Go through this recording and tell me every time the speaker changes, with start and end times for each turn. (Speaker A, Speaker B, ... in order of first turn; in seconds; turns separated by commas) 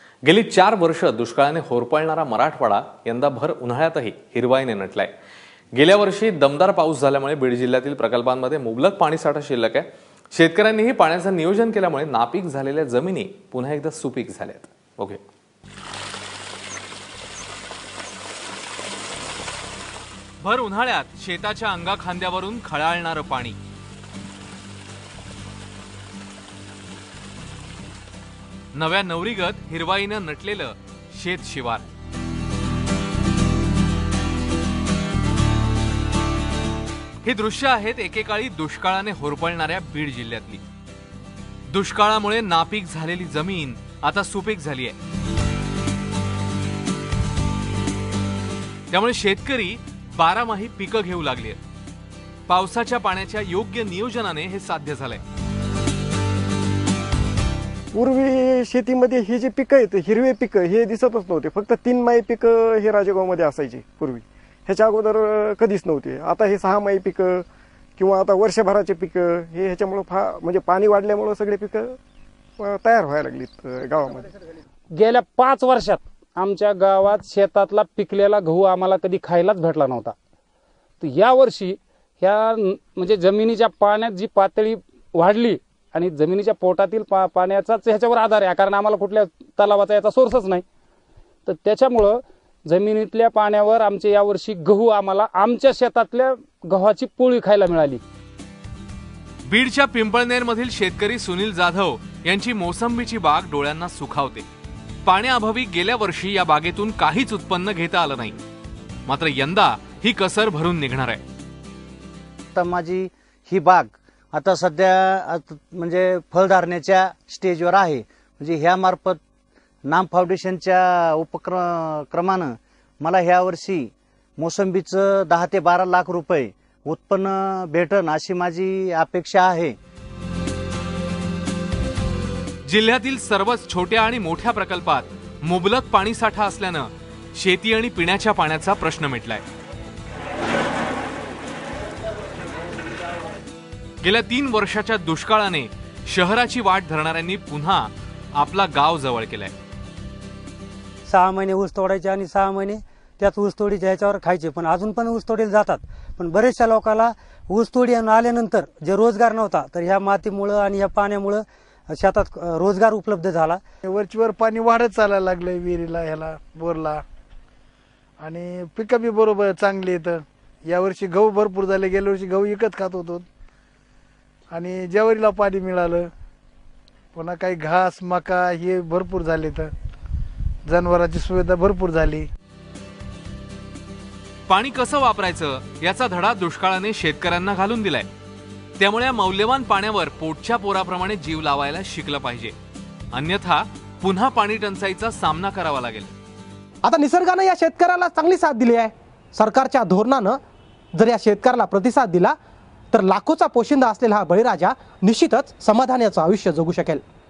Speaker A: 0.2-5.1, Speaker A: 5.8-15.2, Speaker A: 20.4-23.6, Speaker A: 28.7-31.8, Speaker A: 37.2-40.6, Speaker A: 41.7-44.9, Speaker A: 48.9-51.6, Speaker A: 52.5-55.2, Speaker B: 57.9-67.4, Speaker B: 68.0-72.0, Speaker B: 72.6-74.3, Speaker C: 74.9-80.1, Speaker C: 81.0-90.6, Speaker C: 91.5-98.0, Speaker A: 99.5-104.4, Speaker A: 105.0-108.4, Speaker A: 109.0-111.2, Speaker D: 112.5-119.2, Speaker D: 119.9-129.8, Speaker A: 132.7-139.4, Speaker A: 144.0-149.5, Speaker E: 151.1-163.6, Speaker F: 163.8-167.0, Speaker F: 168.2-173.3, Speaker F: 174.5-176.1, Speaker F: 177.1-179.7, Speaker F: 180.6-182.3, Speaker A: 184.5-188.1, Speaker A: 188.8-192.5, Speaker A: 193.1-196.1, Speaker G: 196.8-200.4, Speaker G: 200.9-202.3, Speaker G: 202.9-207.0